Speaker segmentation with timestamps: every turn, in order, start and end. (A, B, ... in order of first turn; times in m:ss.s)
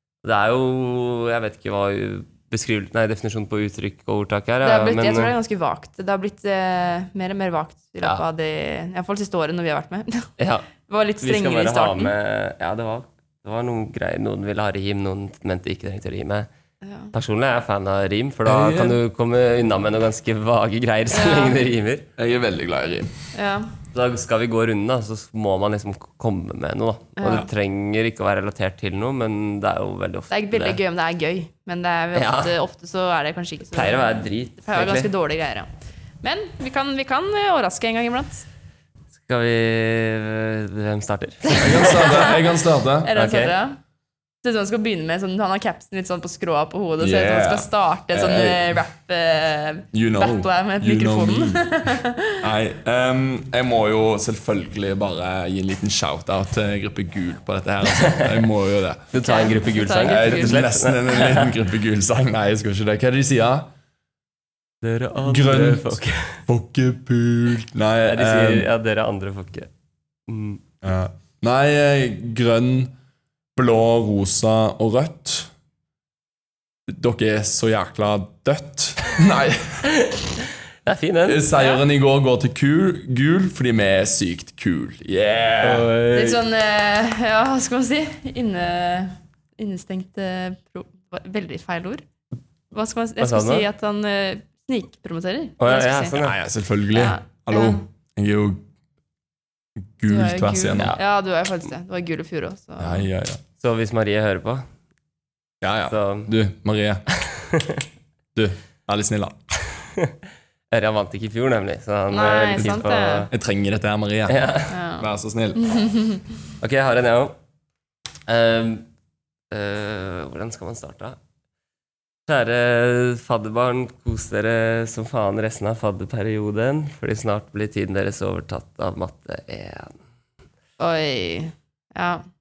0:00.2-0:05.3 A
0:04.6-0:10.3 B
0:10.4-0:10.7 A
0:10.9-0:12.1 B
0:11.2-0:16.5 A
0:16.8-0:17.1 B
0:17.1-0:22.1 A
0:18.4-0:19.0 C
0:21.1-0:21.6 B
0:22.2-0:23.1 C
0:23.3-0:23.7 B
0:23.9-0:30.8 A
0:27.2-0:27.5 B
0:30.3-0:35.7 B
0:32.1-0:32.6 A
0:33.7-0:35.1 A
0:36.2-0:38.4 B
0:39.2-0:42.3 A
0:41.5-0:42.4 B
0:41.5-0:43.1 C
0:43.0-0:43.8 B
0:43.1-0:43.5 A
0:44.4-0:52.5 B
0:47.0-0:48.8 C
0:49.9-0:51.7 C
0:52.4-0:59.1 C
0:57.8-0:58.4 A
0:59.1-1:01.5 A
0:59.2-1:00.6 B
0:59.9-1:03.7 C
1:04.8-1:06.4 A
1:05.2-1:08.7 C
1:08.1-1:09.7 A
1:10.3-1:10.6 A
1:10.8-1:12.9 C
1:13.6-1:15.5 C
1:16.9-1:19.9 C
1:19.8-1:21.5 A
1:21.2-1:26.0 C
1:25.6-1:26.4 A
1:26.1-1:32.0 B
1:32.7-1:36.2 B
1:33.2-1:33.6 A
1:35.6-1:36.4 A
1:36.2-1:38.6 C
1:36.9-1:37.8 B
1:39.8-1:40.9 C
1:40.1-1:43.1 B
1:42.8-1:43.4 C
1:43.6-1:44.7 A
1:45.6-1:47.1 C
1:45.9-1:46.3 A
1:47.2-1:47.8 A
1:48.3-1:49.3 C
1:49.8-1:50.1 A
1:50.7-1:53.3 A
1:52.1-1:53.3 B
1:53.3-1:55.6 C
1:54.3-1:54.8 A
1:54.7-1:55.1 B
1:55.6-1:56.2 B
1:56.6-1:57.3 A
1:58.3-1:58.8 A
1:59.5-2:01.2 A
2:02.3-2:10.0 A
2:10.8-2:12.2 B